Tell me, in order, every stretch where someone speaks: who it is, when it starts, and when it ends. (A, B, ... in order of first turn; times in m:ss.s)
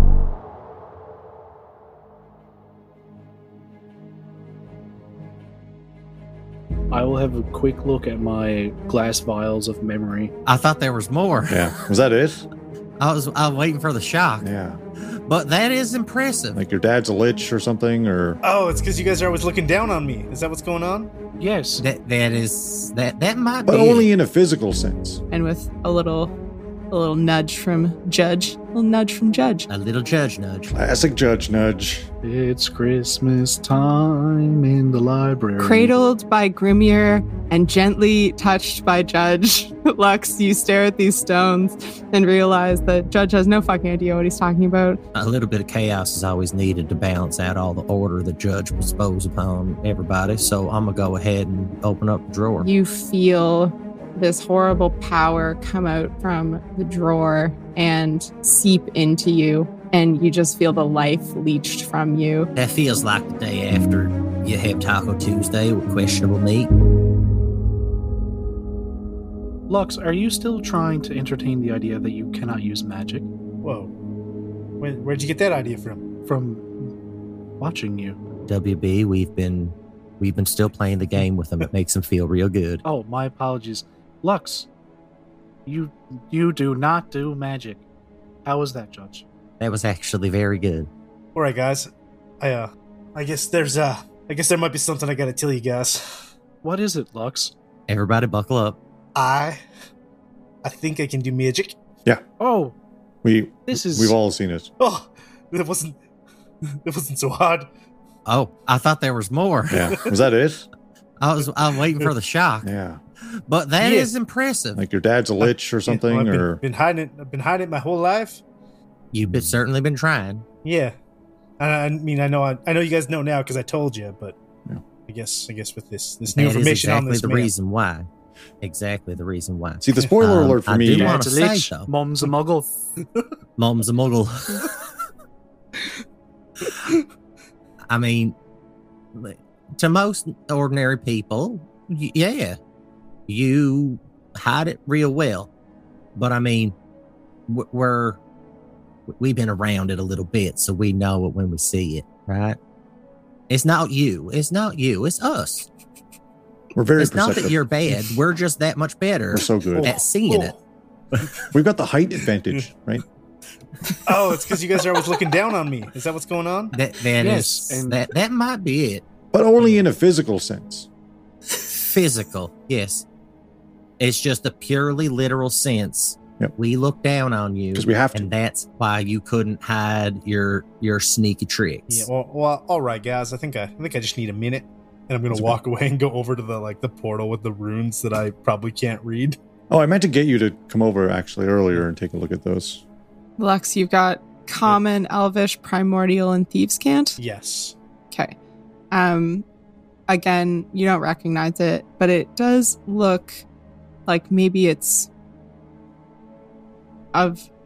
0:06.9-0:10.3 A
0:10.4-0:11.7 B
0:11.5-0:12.4 C
0:13.0-0:14.5 B
0:14.4-0:14.8 C
0:15.0-0:16.6 B
0:16.5-0:18.4 C
0:18.4-0:21.1 D
0:21.4-0:21.8 A
0:21.8-0:24.1 B
0:23.6-0:25.2 C
0:25.3-0:26.3 E
0:26.9-0:29.7 E
0:29.7-0:30.8 B
0:30.7-0:32.1 C
0:32.2-0:35.9 A
0:35.6-0:45.0 E
0:45.1-0:52.7 B
0:52.6-1:02.5 E
1:02.6-1:06.7 B
1:09.7-1:13.3 A
1:13.6-1:13.9 D
1:14.8-1:16.0 D
1:16.2-1:16.7 A
1:17.6-1:18.2 A
1:18.5-1:22.8 B
1:22.8-1:24.7 A
1:25.6-1:27.8 A
1:28.4-1:29.2 A
1:29.6-1:30.9 B
1:31.3-1:36.2 D
1:36.6-1:37.5 A
1:37.9-1:38.8 B
1:39.1-1:39.6 D
1:40.6-1:41.8 D
1:42.4-1:42.7 A
1:43.2-1:44.7 C
1:43.7-1:44.1 A
1:44.8-1:46.0 D
1:46.8-1:47.7 D
1:48.2-1:50.0 B
1:49.7-1:50.6 C
1:51.2-1:52.7 B
1:52.6-1:53.0 C
1:53.2-1:54.8 B
1:53.8-1:54.1 D
1:54.7-1:56.6 C
1:55.4-1:58.4 D
1:59.1-2:00.4 B
2:00.6-2:00.9 D
2:01.6-2:04.4 D
2:05.1-2:07.5 D
2:06.3-2:08.1 B
2:08.6-2:11.9 B
2:09.8-2:11.3 C
2:10.9-2:12.7 A
2:13.6-2:14.7 B
2:17.9-2:18.3 B
2:19.1-2:22.6 B
2:23.3-2:25.5 B
2:26.1-2:26.7 B
2:27.5-2:28.2 B
2:29.2-2:32.6 B
2:33.5-2:35.7 B
2:36.7-2:37.6 C
2:37.0-2:40.5 B
2:39.3-2:39.9 C
2:39.7-2:40.6 D
2:41.5-2:43.0 C
2:44.0-2:46.7 D
2:46.7-2:49.0 B
2:47.2-2:48.0 A
2:49.3-2:50.9 C
2:51.7-2:53.0 B
2:54.0-3:02.1 B
2:57.7-2:58.3 C
3:01.9-3:09.4 D
3:05.3-3:05.6 C
3:09.7-3:12.8 C
3:13.4-3:17.2 E
3:17.2-3:17.8 D
3:18.9-3:19.4 E
3:20.1-3:23.4 E
3:24.1-3:25.1 E
3:27.1-3:27.5 E